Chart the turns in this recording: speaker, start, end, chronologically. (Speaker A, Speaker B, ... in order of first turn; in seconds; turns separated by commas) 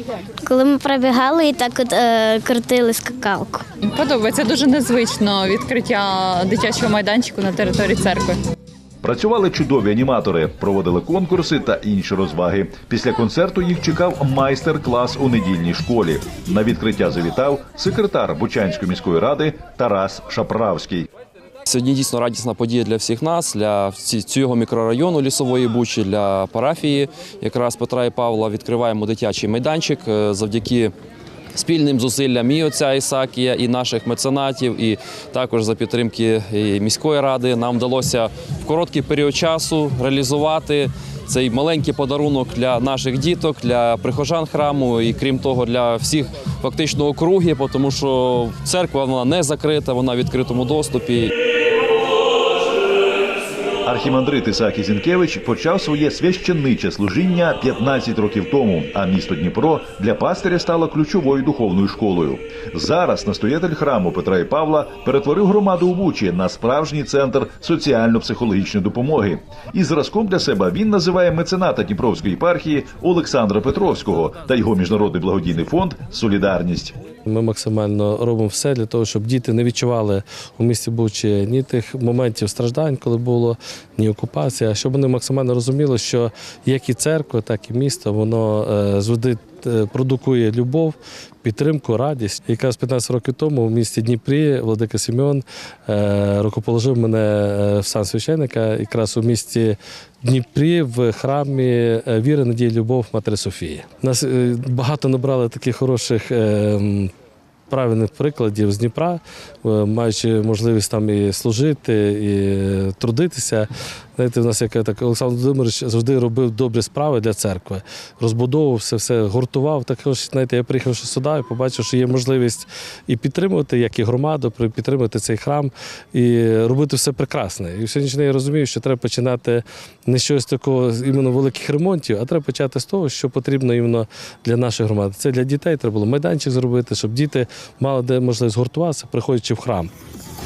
Speaker A: 0.4-3.6, Speaker B: 3.8-8.3, Speaker C: 9.0-21.1, Speaker D: 21.6-30.9, Speaker D: 31.6-51.3, Speaker C: 53.8-76.9, Speaker E: 77.3-107.1, Speaker E: 107.7-139.9